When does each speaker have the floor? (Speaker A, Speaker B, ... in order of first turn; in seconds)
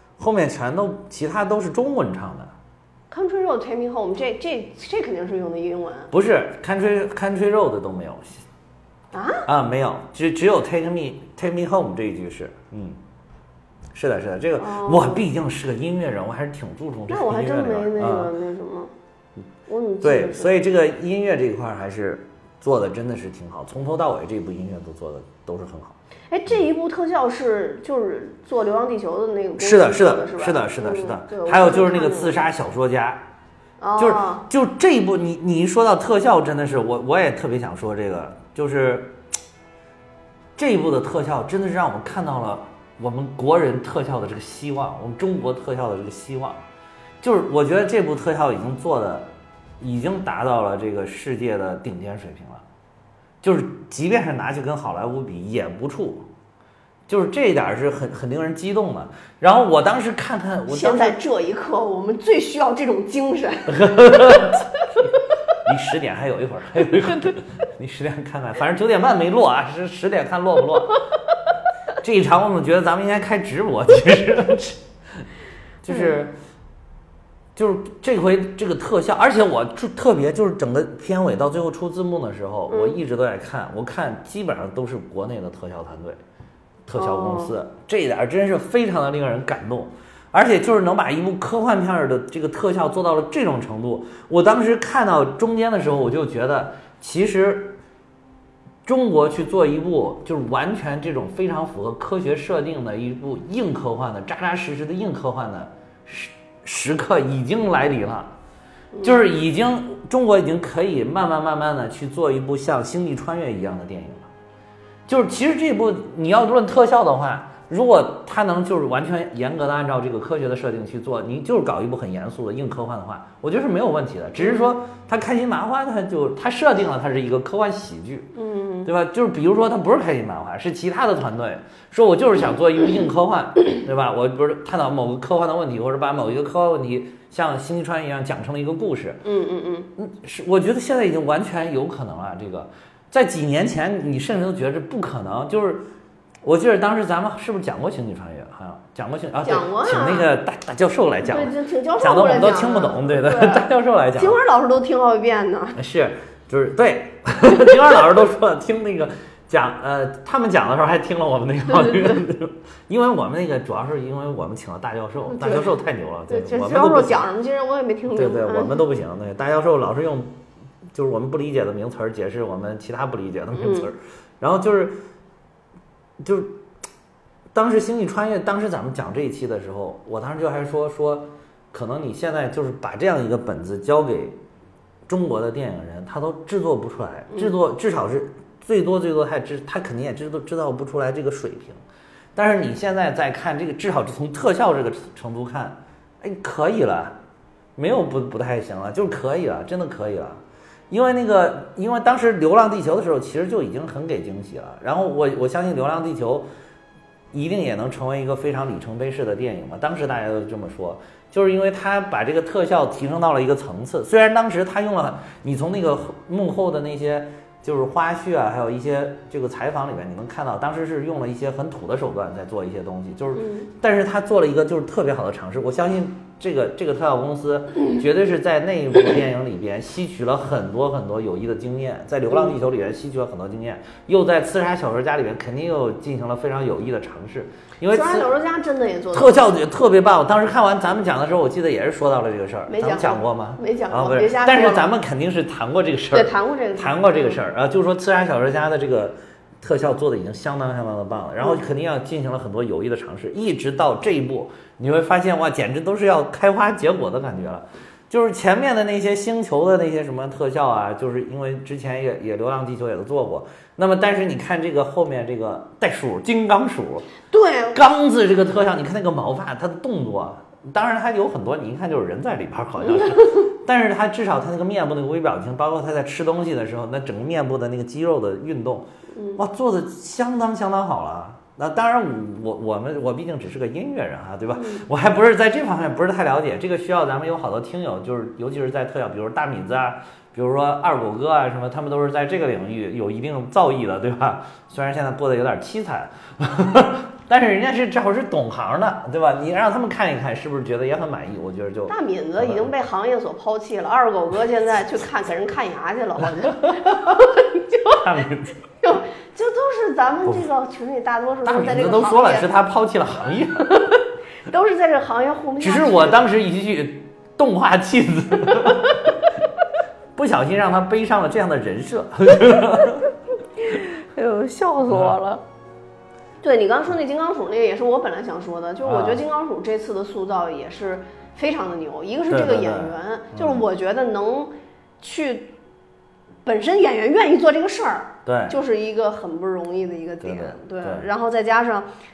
Speaker A: 0.2-2.5, 6.1-8.4, 9.4-13.0, 13.9-18.3, 20.0-25.9, 29.6-33.2, 34.0-39.1, 40.5-46.6, 47.2-52.6, 53.4-56.3, 57.1-61.2, 63.7-64.8, 65.6-71.0, 72.0-75.2, 75.8-76.3, 77.5-86.2, 86.8-97.8, 98.8-108.3, 109.0-114.3, 115.1-128.3, 128.8-139.2, 140.0-145.8, 146.4-154.4, 155.8-167.3, 168.1-170.3, 170.9-175.0, 176.2-176.5, 177.5-184.4, 185.1-191.8, 192.3-197.2, 197.8-206.5, 207.3-238.3, 239.1-267.1, 267.7-302.7, 306.6-306.9, 308.0-308.6, 311.4-313.8, 315.6-319.0, 320.1-323.1, 324.9-325.1, 328.8-329.2, 332.3-333.6, 338.2-338.6, 340.2-341.1
Speaker B: 3.1-6.1, 9.1-9.4, 14.6-15.2, 17.1-18.9, 19.7-20.6, 26.3-32.4, 33.8-34.5, 60.7-64.8, 82.7-83.0, 86.9-87.5, 108.9-109.2, 124.4-124.7, 128.3-128.9, 139.2-139.9, 149.4-150.3, 151.2-155.8, 161.7-162.2, 165.3-165.7, 166.3-168.8, 173.5-173.9, 223.3-223.7, 237.9-239.4, 242.7-244.9, 246.1-247.4, 267.3-267.8, 279.1-279.4, 284.5-284.8, 301.9-308.0, 308.8-312.5, 313.8-316.2, 318.5-318.9, 323.6-325.4, 326.4-335.5, 336.4-341.9